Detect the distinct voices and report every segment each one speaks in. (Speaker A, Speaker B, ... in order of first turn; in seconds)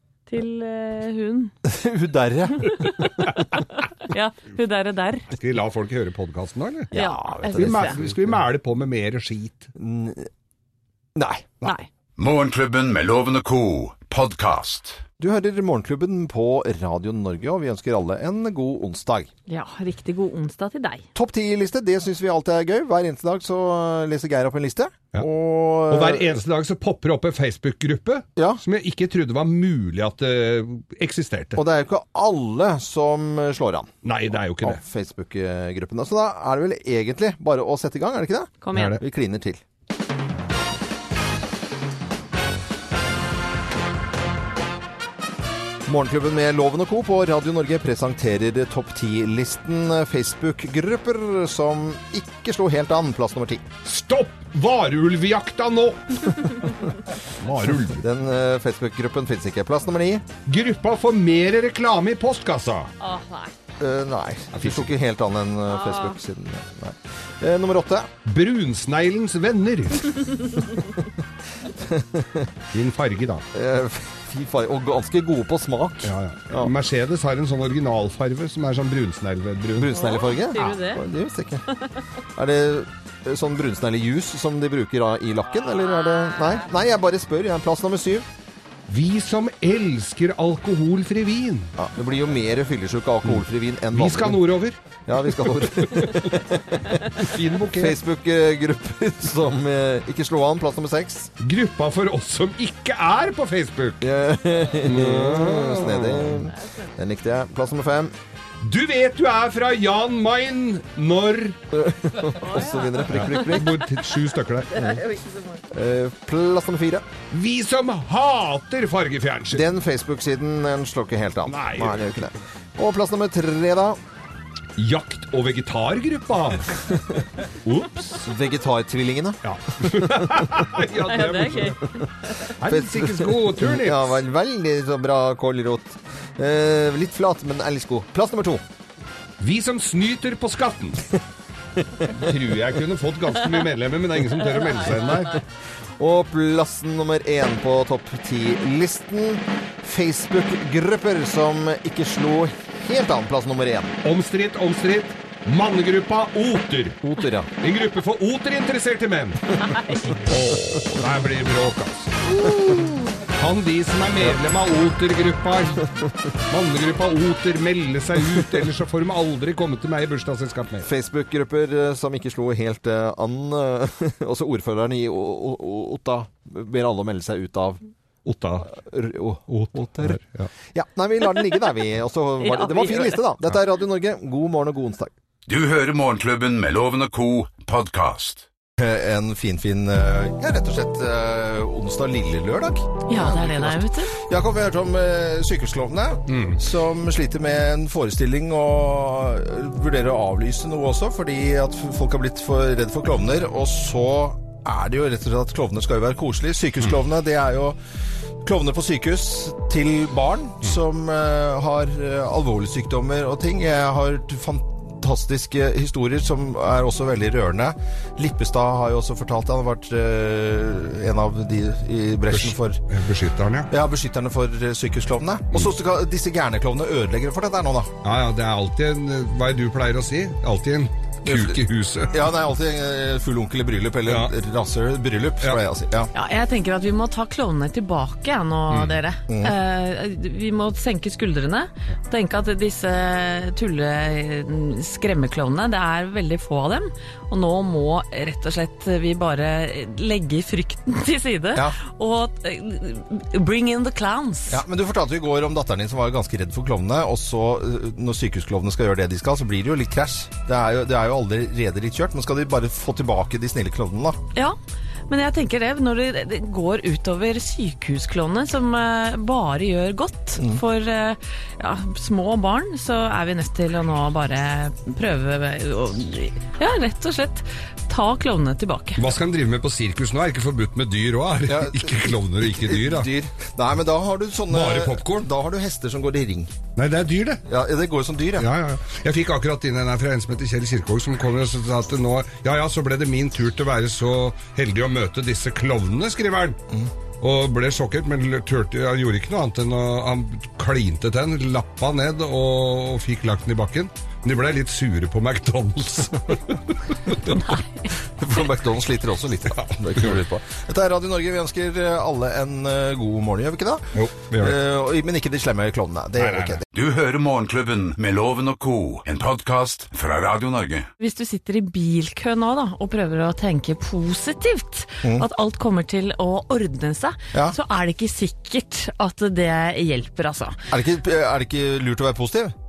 Speaker A: 0.3-1.5, 2.6-5.3, 6.9-8.0, 11.6-11.9, 19.5-21.0, 38.6-39.0, 63.0-63.5, 65.7-66.2, 79.9-81.0, 81.7-82.0, 106.6-106.9, 112.2-113.7, 114.8-115.6, 131.1-132.3, 162.4-163.1, 182.4-183.2, 193.1-194.1, 236.1-254.6, 265.1-279.0, 321.0-330.6
Speaker B: 1.6-2.8, 6.9-8.4, 9.8-10.3, 11.2-11.6, 15.2-19.3, 21.1-26.4, 28.4-28.6, 31.6-33.9, 34.6-39.6, 45.9-53.7, 58.0-60.3, 63.8-68.1, 71.8-72.5, 73.5-76.7, 79.8-81.6, 82.4-88.3, 91.8-94.4, 95.1-101.3, 104.0-108.1, 111.7-113.7, 114.7-115.0, 115.7-117.1, 119.5-124.0, 128.1-130.5, 132.6-138.6, 146.0-153.9, 157.0-157.5, 170.8-177.8, 178.6-185.1, 188.8-207.8, 208.4-222.8, 223.7-227.9, 231.2-236.1, 239.3-239.6, 254.5-264.2, 281.5-286.5, 287.4-288.5, 308.2-316.6, 330.7-332.5
Speaker C: 5.3-6.9, 7.5-9.7, 25.9-31.6, 34.0-34.8, 38.7-39.0, 53.8-56.7, 57.4-58.1, 60.5-62.9, 64.5-64.9, 68.2-70.5, 72.7-73.4, 76.0-79.9, 88.9-91.7, 93.9-94.8, 95.3-96.4, 97.2-98.0, 101.4-104.0, 104.8-106.5, 108.6-111.6, 113.1-114.8, 117.3-119.6, 121.5-122.1, 124.8-128.2, 129.4-131.8, 132.5-134.2, 139.4-141.1, 142.1-145.4, 154.0-157.0, 157.6-162.5, 163.3-166.0, 166.5-170.9, 178.2-178.7, 179.5-180.5, 196.3-196.6, 222.3-223.7, 228.0-232.2, 234.1-234.3, 238.7-238.9, 279.0-283.1, 284.5-285.3, 286.8-287.4, 288.4-296.6, 297.2-307.6, 309.6-310.2, 313.9-314.6, 316.2-316.6
Speaker D: 12.2-15.0, 185.5-188.4, 316.7-320.9